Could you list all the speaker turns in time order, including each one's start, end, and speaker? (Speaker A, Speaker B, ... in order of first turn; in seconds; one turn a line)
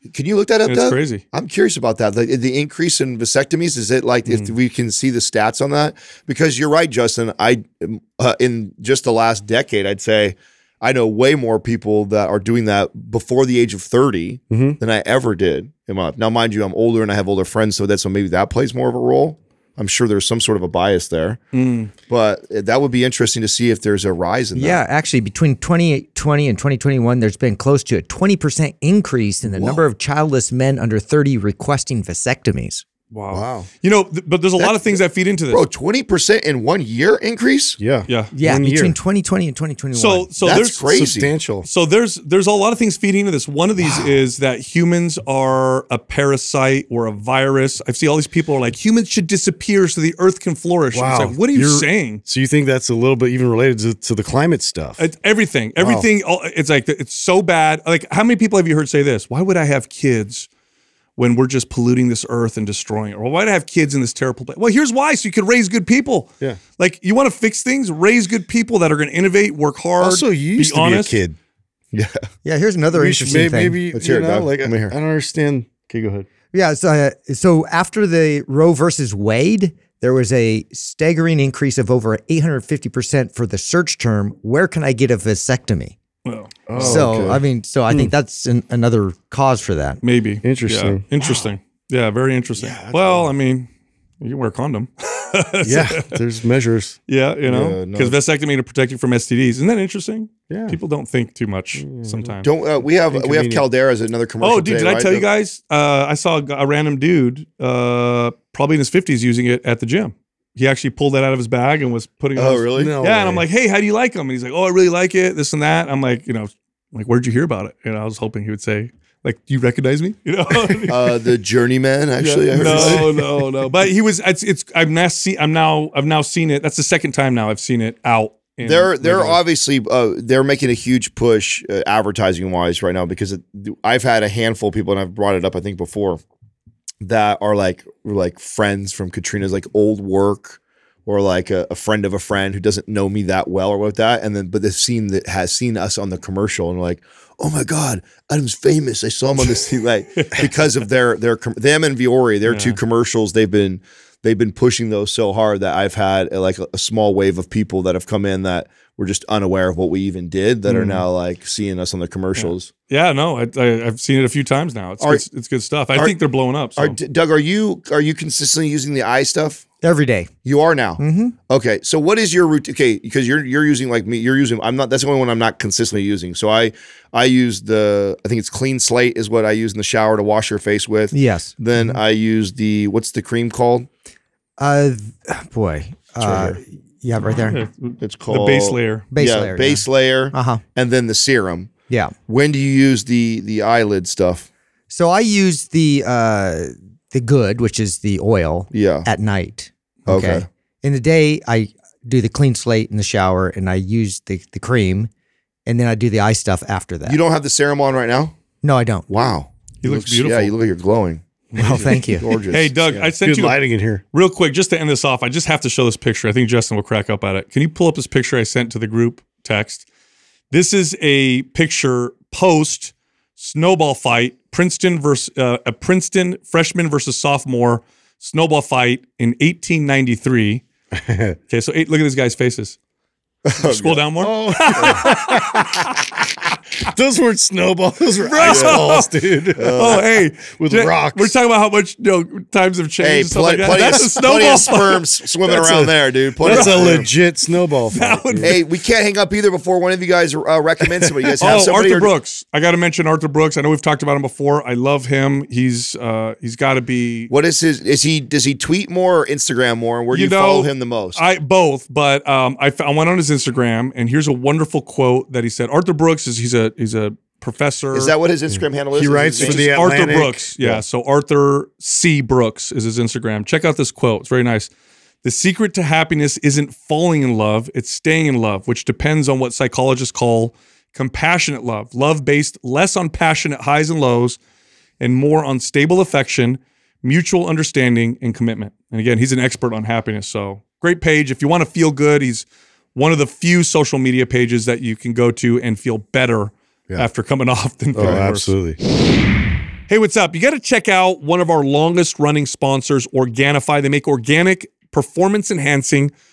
Speaker A: 0.1-21.4
Speaker B: 0.7-1.2
Speaker C: 14.5-14.8
Speaker B: 21.5-21.9
Speaker A: 22.1-24.8
Speaker D: 24.6-32.8
Speaker B: 33.1-35.6
Speaker C: 33.3-33.7
Speaker A: 34.6-35.0
Speaker A: 35.5-37.8
Speaker C: 37.8-39.0
Speaker D: 38.3-40.3
Speaker B: 39.9-40.9
Speaker A: 40.4-41.3
Speaker C: 40.9-41.7
Speaker B: 41.6-52.2
Speaker C: 43.8-44.1
Speaker C: 50.9-55.0
Speaker B: 55.0-60.5
Speaker C: 55.8-56.1
Speaker B: 61.2-71.2
Speaker C: 70.0-71.4
Speaker A: 71.9-72.3
Speaker D: 72.5-73.8
Speaker C: 72.9-76.3
Speaker A: 73.9-75.0
Speaker D: 76.5-86.0
Speaker B: 86.2-87.0
Speaker C: 86.7-88.1
Speaker D: 86.8-90.0
Speaker B: 90.0-93.7
Speaker C: 90.4-91.4
Speaker C: 92.6-93.3
Speaker B: 94.2-96.2
Speaker C: 95.6-97.0
Speaker B: 97.1-102.5
Speaker A: 97.5-98.2
Speaker C: 100.5-100.8
Speaker C: 101.7-103.7
Speaker A: 102.4-105.3
Speaker B: 104.4-121.1
Speaker A: 112.3-113.0
Speaker C: 112.8-113.5
Speaker A: 120.9-123.2
Speaker B: 122.2-129.4
Speaker C: 122.5-123.2
Speaker A: 128.6-136.2
Speaker A: 137.0-162.7
Speaker B: 150.2-150.4
Speaker B: 152.4-152.8
Speaker B: 160.7-161.0
Speaker B: 162.4-167.0
Speaker A: 166.8-169.7
Speaker D: 169.8-170.3
Speaker A: 170.4-183.9
Speaker D: 171.0-171.3
Speaker D: 181.1-182.0
Speaker D: 184.6-187.6
Speaker A: 186.2-186.6
Speaker B: 187.5-189.0
Speaker A: 188.0-191.7
Speaker D: 189.1-190.6
Speaker D: 191.9-192.1
Speaker A: 192.3-194.5
Speaker D: 194.9-205.1
Speaker A: 198.7-199.1
Speaker A: 200.1-200.5
Speaker D: 205.7-207.2
Speaker A: 207.1-208.3
Speaker D: 208.6-209.1
Speaker A: 209.1-211.2
Speaker B: 209.8-210.5
Speaker B: 211.5-219.8
Speaker C: 211.6-212.2
Speaker D: 211.6-212.3
Speaker A: 212.2-213.1
Speaker C: 213.2-214.0
Speaker B: 220.5-230.6
Speaker C: 230.9-231.4
Speaker B: 231.5-232.8
Speaker A: 233.5-234.0
Speaker B: 233.6-235.7
Speaker C: 234.2-235.9
Speaker C: 236.8-239.9
Speaker B: 238.2-239.1
Speaker A: 238.4-238.9
Speaker A: 239.6-240.1
Speaker B: 239.7-245.6
Speaker C: 240.5-241.4
Speaker A: 243.0-247.1
Speaker C: 245.5-248.6
Speaker B: 246.4-247.0
Speaker B: 247.9-248.6
Speaker A: 248.4-252.1
Speaker C: 251.0-251.6
Speaker B: 251.4-257.3
Speaker A: 257.3-261.2
Speaker B: 260.1-268.1
Speaker A: 267.9-270.0
Speaker C: 268.5-270.8
Speaker B: 269.4-274.7
Speaker B: 275.2-284.4
Speaker B: 285.0-298.6
Speaker C: 297.9-298.8
Speaker B: 299.9-306.1